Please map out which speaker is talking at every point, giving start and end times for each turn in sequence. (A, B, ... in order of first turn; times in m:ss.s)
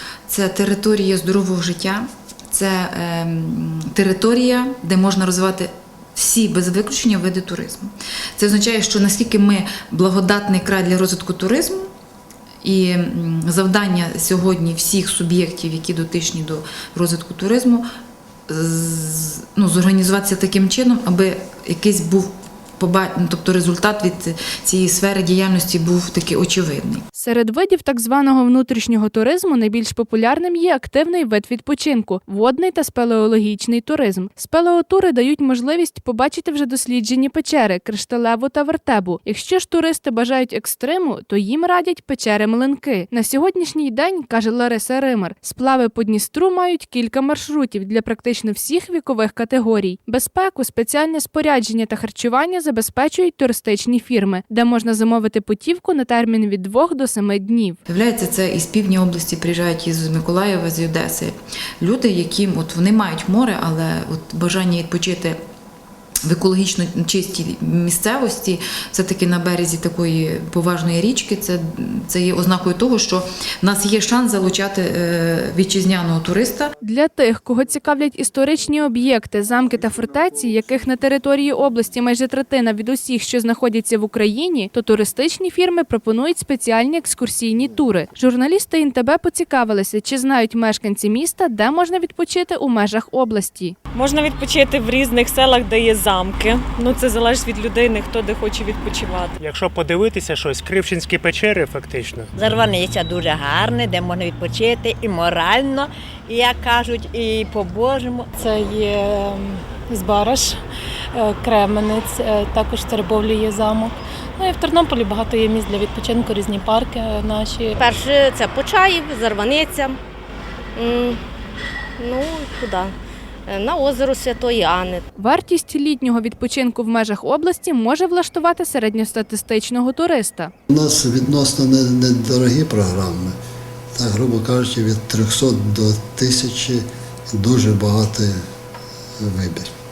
0:00.3-0:11.9 A
0:12.6-0:17.9 A
0:18.5-0:27.0 A
0:27.2-0:57.8 B
0:57.9-1:05.4 A
1:06.3-1:16.7 A
1:16.8-1:33.8 B
1:33.9-1:39.3 C
1:39.4-1:42.3 D
1:42.4-1:48.3 E
1:48.4-1:50.6 F
1:51.1-1:57.8 F
1:57.8-2:00.0 G
2:00.8-2:01.2 G
2:02.0-2:03.0 G
2:03.5-2:05.0 G
2:05.2-2:10.5 B
2:10.7-2:13.4 H
2:14.0-2:18.4 H
2:19.2-2:19.7 H